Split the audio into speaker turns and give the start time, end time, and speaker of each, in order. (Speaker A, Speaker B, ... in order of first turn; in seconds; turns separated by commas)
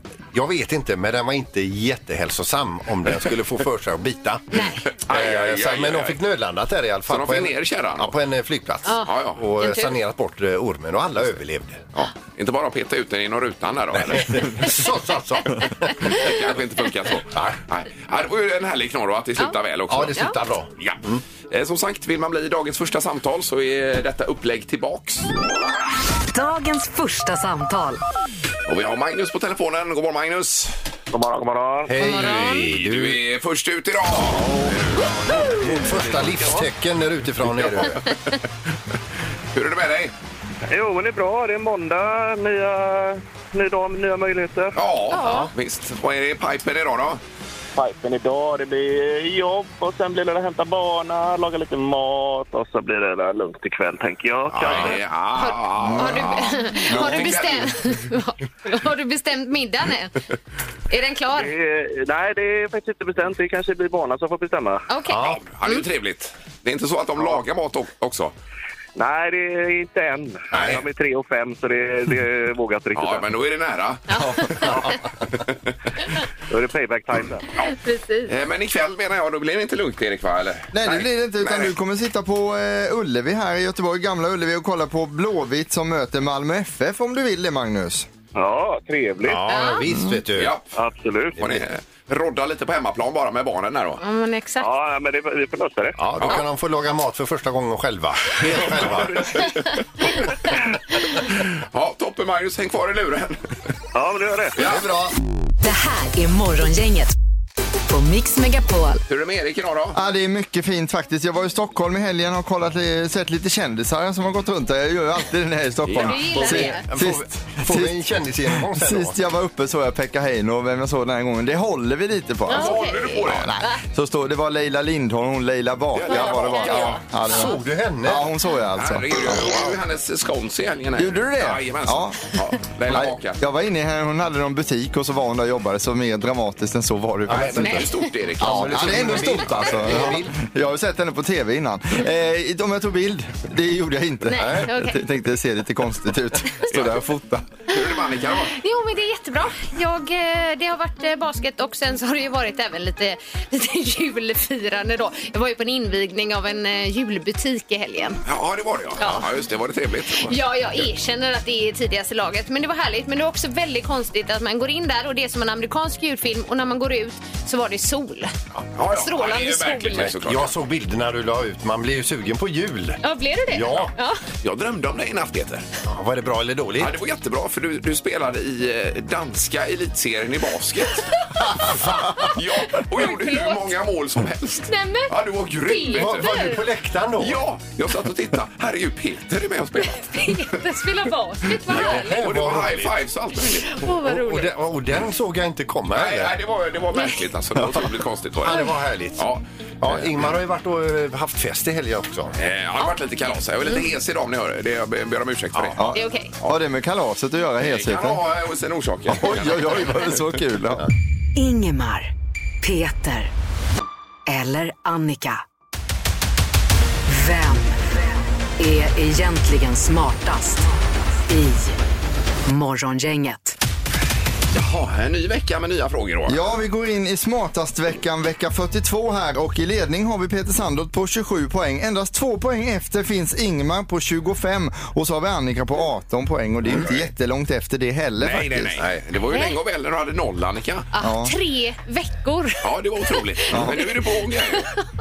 Speaker A: 0.3-4.5, Speaker B: 4.5-4.9, Speaker C: 5.1-6.2, Speaker A: 5.1-11.9, Speaker C: 7.1-8.2, Speaker B: 8.8-9.9, Speaker C: 9.1-9.4, Speaker C: 11.9-14.7, Speaker A: 13.9-16.3, Speaker C: 16.0-25.3, Speaker A: 17.3-17.6, Speaker A: 19.9-21.2, Speaker D: 26.3-28.0, Speaker C: 28.7-30.8, Speaker E: 31.1-31.9, Speaker A: 31.9-33.2, Speaker B: 32.0-32.7, Speaker C: 32.5-36.5, Speaker A: 35.5-38.0, Speaker C: 37.4-38.3, Speaker C: 39.5-40.1, Speaker E: 40.7-44.8, Speaker C: 44.8-47.2, Speaker B: 45.1-45.5, Speaker E: 47.8-55.0, Speaker C: 54.5-57.7, Speaker B: 55.4-60.1, Speaker F: 56.0-56.3, Speaker F: 56.9-57.4, Speaker B: 60.9-61.5, Speaker E: 61.4-64.8, Speaker B: 64.9-65.8, Speaker A: 65.1-65.4, Speaker C: 65.1-68.3, Speaker E: 69.0-73.3, Speaker A: 70.5-70.8, Speaker C: 73.0-75.5, Speaker B: 74.1-74.7, Speaker E: 74.7-75.0, Speaker E: 76.5-77.5, Speaker B: 77.6-78.3, Speaker C: 78.3-81.7, Speaker F: 80.7-88.1, Speaker E: 88.3-89.5, Speaker A: 89.3-90.5, Speaker B: 89.5-89.8, Speaker F: 89.9-90.2, Speaker C: 90.4-90.6, Speaker E: 90.8-91.4, Speaker C: 91.4-94.0, Speaker A: 91.4-91.7, Speaker B: 94.0-94.7, Speaker E: 94.6-96.0, Speaker A: 96.0-99.6, Speaker C: 99.0-99.6, Speaker C: 101.2-103.4, Speaker E: 103.9-104.6, Speaker C: 104.6-104.8, Speaker A: 104.6-105.2, Speaker D: 105.6-107.2, Speaker D: 107.9-109.0, Speaker C: 109.1-110.0, Speaker F: 109.9-118.0, Speaker C: 115.9-116.3, Speaker B: 116.0-116.8, Speaker A: 116.4-119.2, Speaker F: 118.5-129.8, Speaker B: 122.5-123.8, Speaker C: 122.5-123.5, Speaker C: 126.0-127.0, Speaker B: 126.1-127.5, Speaker A: 127.3-128.3, Speaker C: 128.8-133.4, Speaker F: 131.0-132.2, Speaker F: 132.9-137.9, Speaker A: 137.3-137.8, Speaker C: 137.3-140.1, Speaker B: 137.7-137.9, Speaker A: 138.4-140.3, Speaker F: 138.4-147.5, Speaker B: 144.3-145.0, Speaker A: 144.3-144.7, Speaker C: 147.7-148.6, Speaker B: 148.5-158.2, Speaker C: 158.2-160.4, Speaker B: 159.0-159.3, Speaker B: 160.2-168.3, Speaker C: 168.8-170.6, Speaker B: 168.9-170.1, Speaker A: 169.9-173.0, Speaker B: 173.0-174.2, Speaker A: 173.5-173.9, Speaker C: 174.4-175.7, Speaker A: 175.8-176.9, Speaker C: 176.8-181.1, Speaker C: 181.7-186.4, Speaker B: 181.9-183.8, Speaker B: 184.7-185.1, Speaker B: 185.6-186.6, Speaker A: 185.9-187.4, Speaker C: 187.2-190.4, Speaker B: 189.9-192.3, Speaker A: 191.7-192.9, Speaker C: 191.7-193.9, Speaker B: 193.7-194.5, Speaker A: 194.0-196.3, Speaker C: 195.9-200.2, Speaker A: 198.4-199.3, Speaker A: 199.8-202.3, Speaker C: 202.4-205.9, Speaker F: 205.8-208.2, Speaker B: 205.9-206.3, Speaker C: 207.6-210.2, Speaker F: 209.1-210.9, Speaker D: 211.4-212.1, Speaker D: 212.6-213.3, Speaker D: 214.3-215.4, Speaker D: 217.1-217.8, Speaker D: 218.6-220.7, Speaker D: 221.2-221.8, Speaker D: 222.5-223.6, Speaker C: 224.5-226.5, Speaker F: 226.3-238.8, Speaker C: 238.2-240.9, Speaker B: 239.3-239.6, Speaker B: 240.9-243.9, Speaker F: 241.0-241.3, Speaker C: 242.6-244.7, Speaker F: 243.5-243.8